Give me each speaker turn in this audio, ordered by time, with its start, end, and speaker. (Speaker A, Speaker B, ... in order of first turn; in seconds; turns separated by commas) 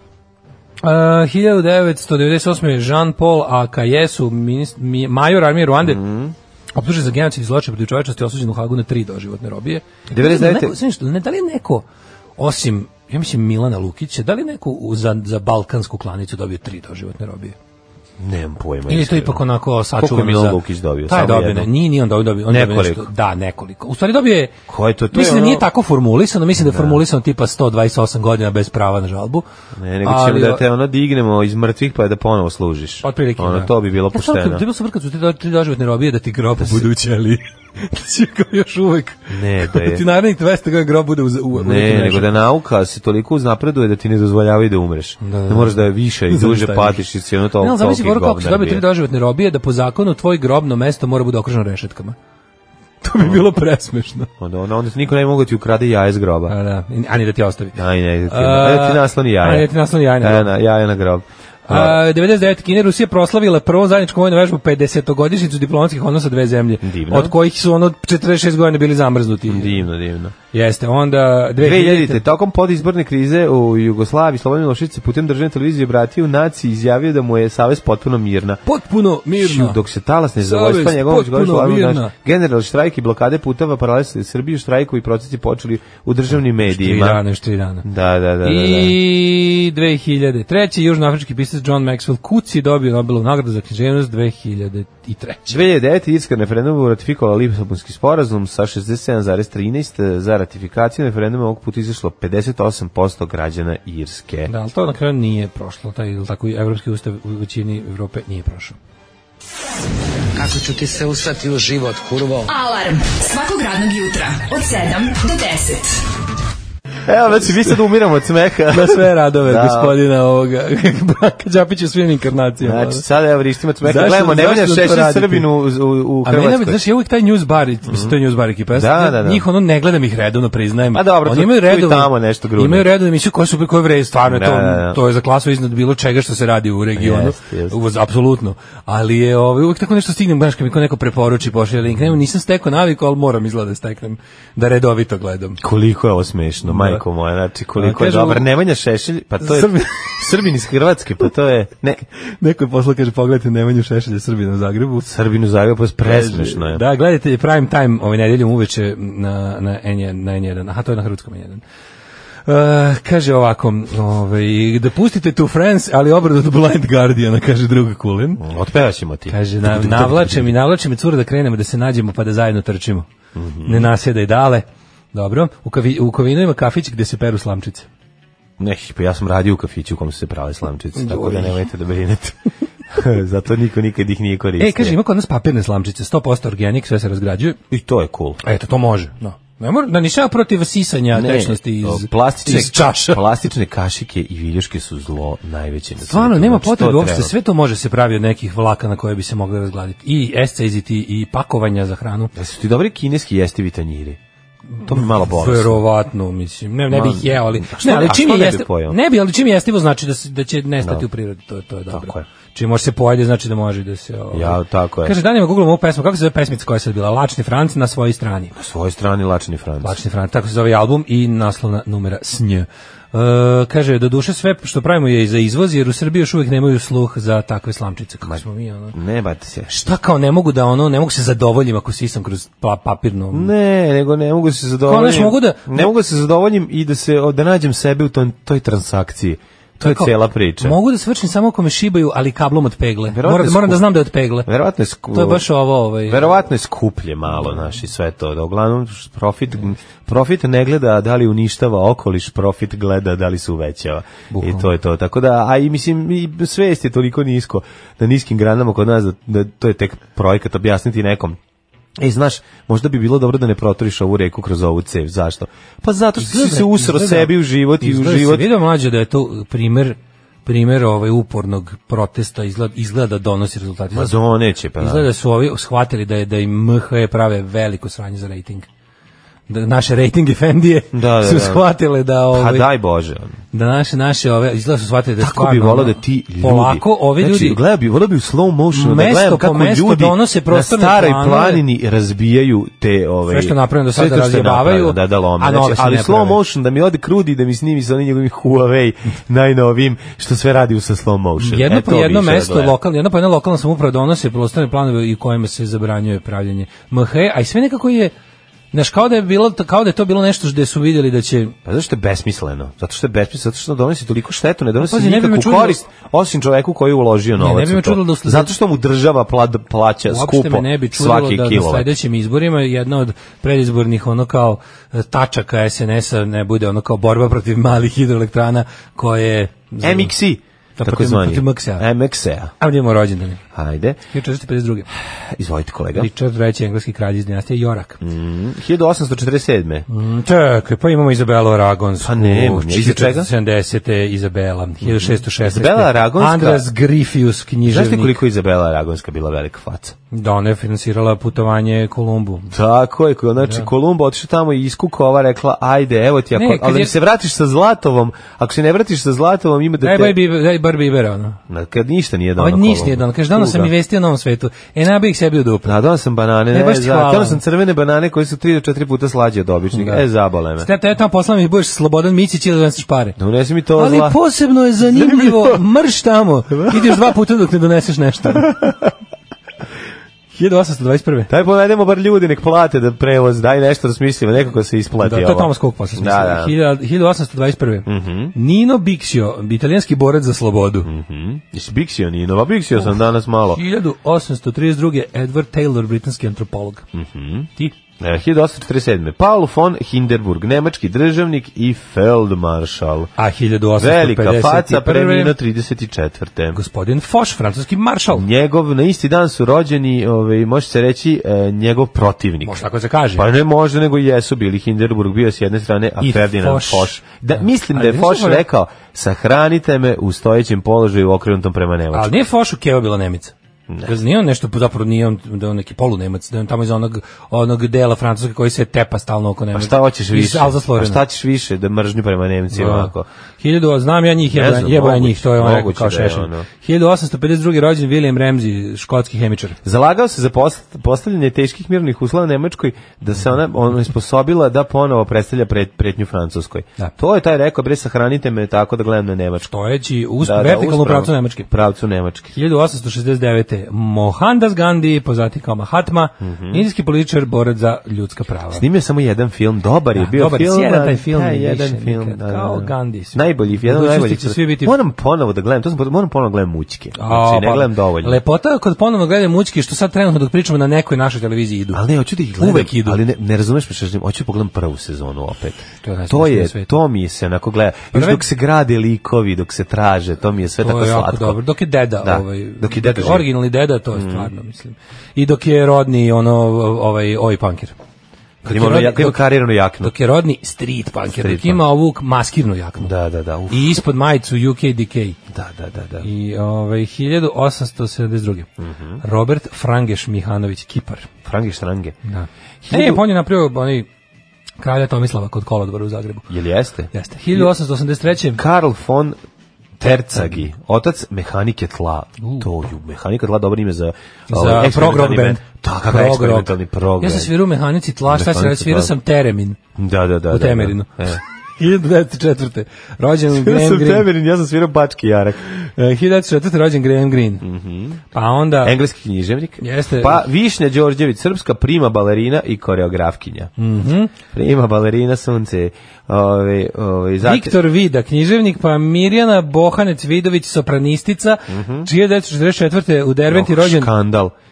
Speaker A: 0.8-6.0, Speaker B: 5.8-6.3, Speaker A: 6.8-11.8, Speaker B: 10.1-10.7, Speaker A: 12.4-17.6, Speaker B: 18.2-19.4, Speaker A: 18.9-24.5, Speaker B: 20.0-21.7, Speaker B: 22.5-23.1, Speaker B: 24.7-25.6, Speaker A: 25.1-29.4, Speaker B: 26.6-27.0, Speaker B: 29.8-34.6, Speaker A: 30.0-30.6, Speaker A: 33.0-42.3, Speaker B: 36.6-36.9, Speaker B: 39.3-40.0, Speaker B: 41.5-48.8, Speaker A: 45.2-47.1, Speaker A: 47.6-52.1, Speaker A: 53.0-54.3, Speaker B: 54.4-56.5, Speaker A: 56.5-60.5, Speaker B: 57.7-62.0, Speaker A: 61.7-69.8, Speaker B: 66.8-67.3, Speaker B: 69.5-70.3, Speaker A: 70.5-72.2, Speaker B: 71.6-78.6, Speaker A: 78.7-79.8, Speaker B: 79.4-87.2, Speaker A: 80.4-82.1, Speaker A: 86.6-87.8, Speaker B: 87.8-89.0, Speaker A: 88.4-95.6, Speaker B: 95.5-104.5, Speaker A: 104.5-108.8, Speaker C: 110.4-112.4, Speaker D: 112.5-116.0, Speaker B: 117.0-120.0, Speaker A: 118.7-123.0, Speaker B: 122.6-126.8, Speaker A: 123.8-125.5, Speaker A: 126.2-145.6, Speaker B: 127.9-128.1, Speaker B: 128.7-129.4, Speaker B: 130.9-132.9, Speaker B: 134.2-135.0, Speaker B: 136.9-137.8, Speaker B: 145.6-152.0, Speaker A: 146.7-147.0, Speaker A: 147.8-148.5, Speaker A: 149.4-150.2, Speaker A: 152.4-155.1, Speaker B: 155.1-156.8, Speaker A: 156.0-161.6, Speaker A: 162.4-168.4, Speaker B: 168.4-170.5, Speaker A: 169.3-173.1, Speaker B: 173.3-173.9, Speaker A: 173.6-177.9, Speaker B: 178.6-182.4, Speaker A: 180.9-181.6, Speaker B: 182.9-185.0, Speaker A: 184.6-187.6, Speaker B: 187.7-188.4, Speaker A: 188.4-193.2, Speaker B: 191.1-197.3, Speaker A: 196.0-202.3, Speaker B: 202.3-204.2, Speaker A: 204.8-218.5, Speaker B: 204.8-205.8, Speaker B: 206.9-209.0, Speaker B: 211.9-212.2, Speaker B: 214.3-215.1, Speaker B: 218.5-220.0, Speaker A: 219.8-228.9, Speaker B: 228.2-229.7, Speaker A: 229.7-233.5, Speaker B: 233.3-240.8, Speaker A: 234.8-235.9, Speaker A: 239.8-244.5, Speaker B: 243.1-243.9, Speaker B: 244.4-245.4, Speaker A: 245.1-246.3, Speaker B: 246.0-261.4, Speaker A: 254.3-254.7, Speaker B: 262.0-268.5, Speaker A: 266.2-274.2, Speaker B: 273.9-275.1, Speaker A: 274.8-278.7, Speaker A: 279.5-282.7, Speaker B: 280.9-281.6, Speaker B: 282.3-283.4, Speaker A: 283.5-287.6, Speaker B: 285.2-302.8, Speaker A: 288.7-291.6, Speaker A: 293.3-296.4, Speaker A: 301.4-308.1, Speaker A: 308.7-311.5, Speaker B: 311.6-321.9, Speaker A: 314.8-315.8, Speaker A: 317.4-318.5, Speaker A: 320.1-330.1, Speaker B: 329.8-332.5, Speaker A: 330.8-331.9, Speaker A: 332.6-333.4, Speaker B: 333.5-334.0, Speaker A: 334.1-334.9, Speaker B: 335.3-336.1, Speaker A: 335.9-338.0, Speaker B: 338.0-339.9, Speaker A: 339.9-348.2, Speaker B: 342.0-343.3, Speaker B: 344.8-346.6, Speaker B: 347.6-349.9, Speaker A: 350.1-352.5, Speaker B: 352.5-360.2, Speaker A: 353.4-353.7, Speaker A: 356.3-356.9, Speaker A: 359.8-361.4, Speaker B: 361.5-363.7, Speaker A: 362.4-365.7, Speaker B: 365.6-370.7, Speaker A: 366.5-367.4, Speaker A: 369.7-370.0, Speaker A: 370.6-373.2, Speaker B: 373.2-374.2, Speaker A: 373.8-378.7, Speaker B: 374.8-375.6, Speaker B: 376.5-377.1, Speaker A: 380.3-381.3, Speaker B: 381.3-386.5, Speaker A: 385.0-390.9, Speaker B: 387.9-388.3, Speaker B: 390.8-393.6, Speaker A: 393.5-396.8, Speaker B: 396.9-403.1, Speaker A: 403.2-405.4, Speaker B: 403.8-406.6, Speaker A: 406.5-408.2, Speaker B: 408.1-412.6, Speaker A: 412.4-413.3, Speaker B: 413.1-422.1, Speaker A: 416.0-418.4, Speaker A: 421.9-423.3, Speaker B: 423.7-423.9, Speaker A: 423.8-431.0, Speaker B: 429.5-433.1, Speaker A: 432.5-439.6, Speaker B: 434.3-436.4, Speaker B: 439.6-449.5, Speaker A: 449.5-451.5, Speaker B: 450.2-452.3, Speaker A: 452.3-458.6, Speaker B: 456.2-456.6, Speaker B: 458.5-468.2, Speaker A: 459.9-464.7, Speaker A: 466.9-471.8, Speaker B: 471.7-481.4, Speaker A: 472.4-473.0, Speaker A: 475.8-476.7, Speaker A: 477.9-478.2, Speaker A: 480.6-487.7, Speaker B: 482.0-483.3, Speaker B: 483.9-484.3, Speaker A: 488.4-489.2, Speaker B: 488.4-489.9, Speaker A: 489.8-492.9, Speaker B: 491.1-491.7, Speaker B: 492.8-493.7, Speaker A: 493.5-495.2, Speaker B: 495.3-496.1, Speaker A: 496.0-498.5, Speaker B: 498.6-499.0, Speaker A: 499.0-501.1, Speaker B: 501.2-502.0, Speaker A: 502.0-503.9, Speaker B: 502.6-503.0, Speaker A: 504.6-506.3, Speaker B: 506.3-507.5, Speaker A: 506.9-508.4, Speaker B: 508.3-509.2, Speaker B: 509.8-517.3, Speaker A: 512.2-512.5, Speaker A: 514.3-519.6, Speaker B: 518.1-518.9, Speaker B: 519.8-521.2, Speaker A: 520.3-524.1, Speaker B: 523.3-525.4, Speaker A: 525.5-527.4, Speaker B: 527.4-528.0, Speaker A: 528.1-528.8, Speaker B: 528.6-533.5, Speaker A: 529.6-530.2, Speaker A: 533.6-534.1, Speaker B: 534.3-537.6, Speaker A: 537.2-543.9, Speaker B: 541.5-541.9, Speaker B: 543.3-544.3